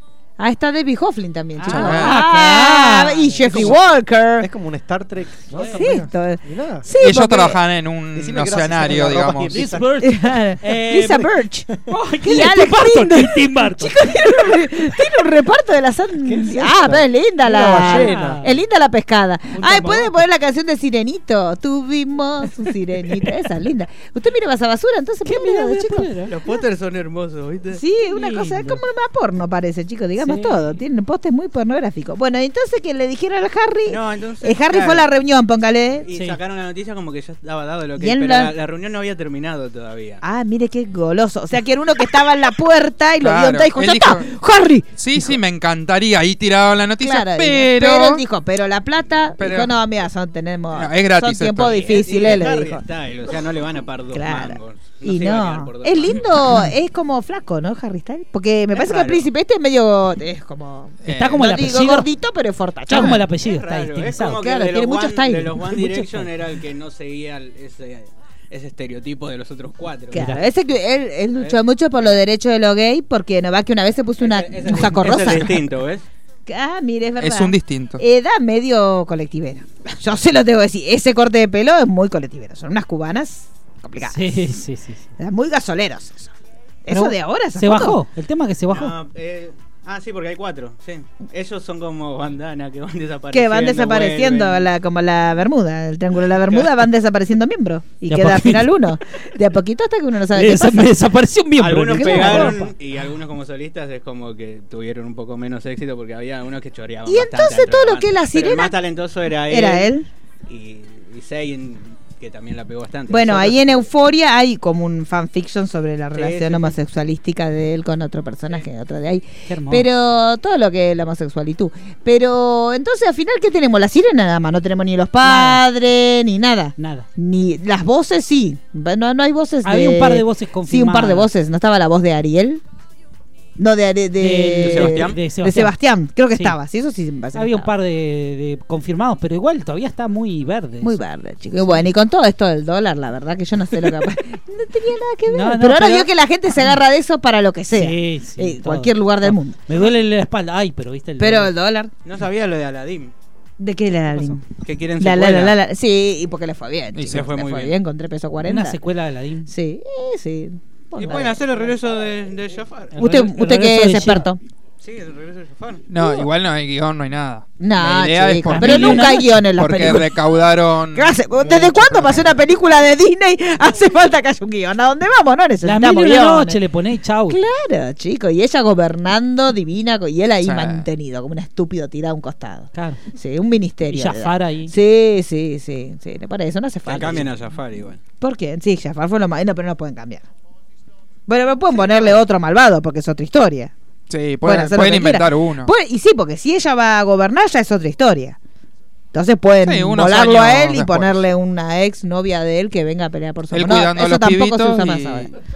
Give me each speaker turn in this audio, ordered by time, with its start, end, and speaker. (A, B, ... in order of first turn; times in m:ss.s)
0:00.4-0:04.5 A
0:01.6-0:03.8 B
0:01.6-0:02.3 C
0:03.5-0:03.8 D
0:04.4-0:06.9 D
0:05.5-0:05.9 B
0:05.7-0:07.6 A
0:07.0-0:09.6 C
0:08.1-0:10.0 D
0:09.4-0:11.3 B
0:10.0-0:11.7 A
0:11.9-0:14.0 B
0:12.2-0:26.1 A
0:16.2-0:18.4 D
0:17.7-0:18.5 B
0:19.5-0:20.2 B
0:25.2-0:26.3 B
0:26.3-0:27.8 E
0:27.7-0:36.0 A
0:28.1-0:28.8 B
0:30.2-0:30.8 B
0:33.8-0:35.1 E
0:36.0-0:40.2 E
0:36.1-0:36.4 B
0:38.0-0:38.5 A
0:40.2-0:45.4 A
0:43.2-0:44.3 C
0:45.0-0:48.2 C
0:47.0-0:52.8 A
0:49.4-0:49.7 C
0:50.7-0:51.8 C
0:51.6-0:56.3 E
0:54.1-1:03.2 A
0:58.7-0:59.3 E
1:01.0-1:01.4 C
1:01.1-1:02.1 B
1:02.9-1:04.4 B
1:02.9-1:10.3 E
1:04.4-1:06.0 A
1:10.1-1:15.6 A
1:10.1-1:10.4 B
1:14.2-1:16.0 E
1:16.5-1:24.5 A
1:17.2-1:18.0 C
1:24.0-1:25.1 B
1:25.2-1:26.3 A
1:26.8-1:28.0 A
1:26.9-1:28.9 B
1:28.7-1:34.7 E
1:33.3-1:40.9 A
1:36.2-1:36.8 E
1:38.1-1:38.8 B
1:40.3-1:42.7 B
1:41.6-1:49.9 E
1:41.9-1:42.6 A
1:47.1-1:48.8 A
1:49.5-1:50.1 A
1:50.5-1:53.9 E
1:53.1-2:12.6 A
1:56.1-1:56.8 E
1:59.5-1:59.8 B
2:05.2-2:05.6 B
2:06.8-2:07.1 B
2:09.6-2:11.3 B
2:13.6-2:17.7 A
2:14.2-2:15.7 B
2:14.6-2:15.2 E
2:17.3-2:21.0 B
2:20.8-2:29.6 A
2:21.6-2:21.9 B
2:25.3-2:26.1 B
2:27.7-2:31.5 B
2:31.2-2:31.9 A
2:32.0-2:33.1 E
2:33.6-2:34.4 A
2:34.5-2:35.6 E
2:35.0-2:38.8 A
2:36.9-2:37.3 C
2:37.1-2:37.8 E
2:38.4-2:39.5 B
2:39.5-2:41.4 A
2:41.0-2:42.9 E
2:42.9-2:44.2 B
2:43.0-2:44.4 A
2:44.8-2:45.8 E
2:45.9-2:52.3 C
2:46.0-2:46.2 A
2:47.6-2:50.2 A
2:48.5-2:49.4 B
2:50.9-2:56.6 A
2:55.6-2:57.4 B
2:57.3-3:07.3 A
3:00.4-3:00.9 C
3:02.7-3:03.0 B
3:03.9-3:04.7 B
3:06.8-3:08.0 E
3:08.2-3:10.2 A
3:11.3-3:13.7 A
3:11.8-3:12.1 E
3:14.1-3:15.7 C
3:14.4-3:18.4 A
3:19.1-3:25.3 A
3:19.6-3:21.2 C
3:23.5-3:25.3 C